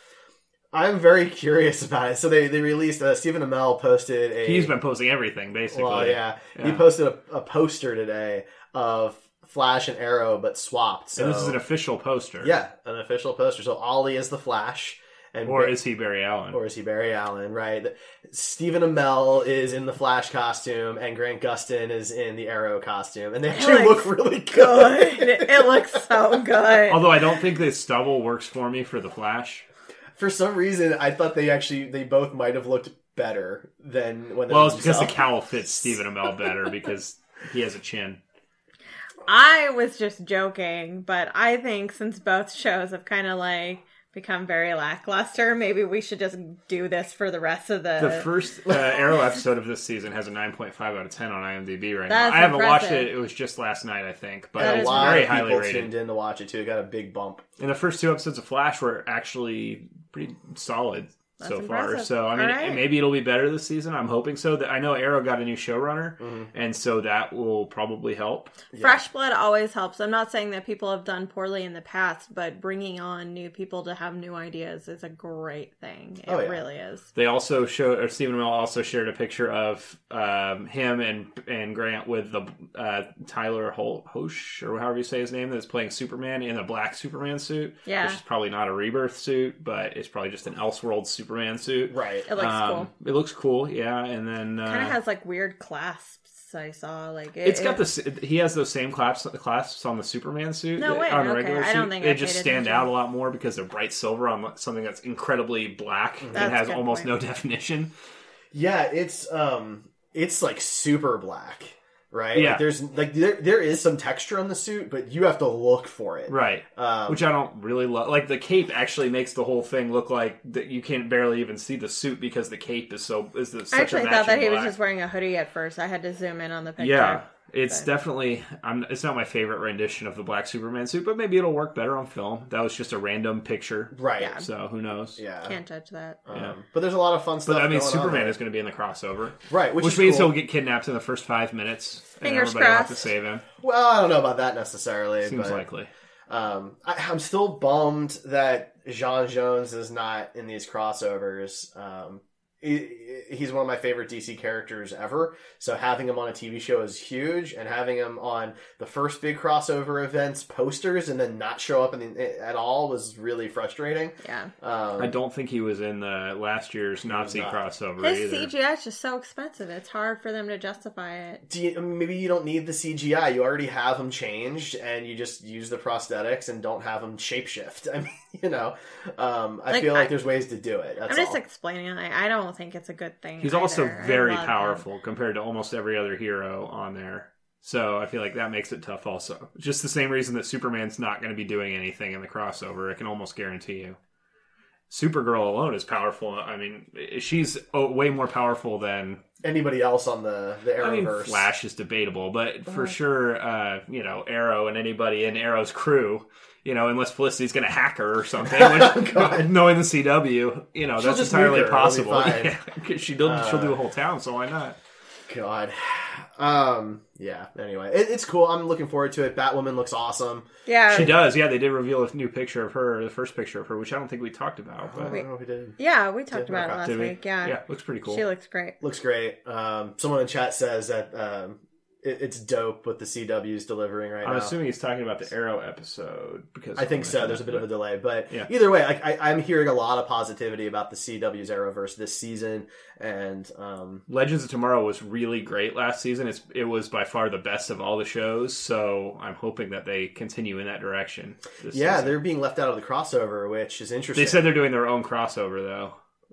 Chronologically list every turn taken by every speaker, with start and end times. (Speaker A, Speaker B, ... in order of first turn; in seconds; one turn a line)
Speaker A: 0.7-4.7
Speaker B: 4.4-6.8
Speaker A: 5.7-11.6
Speaker B: 11.2-12.5
Speaker A: 12.4-15.8
Speaker B: 15.4-16.6
Speaker A: 16.5-25.8
Speaker C: 23.5-27.0
Speaker B: 26.9-29.6
Speaker A: 30.2-35.2
Speaker B: 34.5-38.2
Speaker C: 39.2-48.3
Speaker B: 48.0-55.9
Speaker C: 52.1-53.1
Speaker A: 54.5-57.4
Speaker C: 54.6-55.2
Speaker B: 57.6-68.6
Speaker C: 61.4-62.8
Speaker A: 66.2-66.5
Speaker A: 68.7-69.0
Speaker C: 68.8-77.0
Speaker A: 76.3-76.6
Speaker B: 77.1-95.0
Speaker C: 87.8-88.2
Speaker A: 91.9-92.3
Speaker C: 92.3-92.9
Speaker C: 94.7-97.8
Speaker B: 97.4-107.9
Speaker C: 100.8-102.9
Speaker A: 106.2-106.5
Speaker C: 106.3-107.1
Speaker A: 108.5-117.2
Speaker B: 112.3-112.7
Speaker B: 116.3-124.7
Speaker C: 123.7-127.8
Speaker B: 126.8-135.2
Speaker A: 133.9-134.3
Speaker C: 134.2-134.4
Speaker A: 135.2-135.6
Speaker C: 135.4-136.2
Speaker A: 136.3-138.3
Speaker B: 137.4-143.4
Speaker A: 139.5-140.3
Speaker C: 142.2-143.1
Speaker A: 143.6-145.6
Speaker B: 145.2-145.9
Speaker A: 146.3-165.1
Speaker C: 164.2-164.5
Speaker B: 165.0-168.5
Speaker A: 167.1-167.6
Speaker C: 168.0-171.4
Speaker A: 171.5-181.4
Speaker C: 179.7-180.1
Speaker C: 181.1-184.8
Speaker B: 183.4-194.0
Speaker B: 194.9-199.2
Speaker A: 199.4-201.5
Speaker B: 200.8-214.8
Speaker A: 208.4-209.5
Speaker A: 211.0-212.5
Speaker A: 213.2-213.8
Speaker A: 215.3-221.1
Speaker C: 220.7-221.2
Speaker B: 220.9-225.2
Speaker A: 224.9-225.8
Speaker C: 225.8-228.8
Speaker A: 226.3-226.8
Speaker B: 226.8-228.2
Speaker A: 228.8-234.5
Speaker B: 234.2-237.7
Speaker A: 236.8-244.0
Speaker B: 244.1-252.2
Speaker A: 251.7-254.5
Speaker B: 254.1-255.9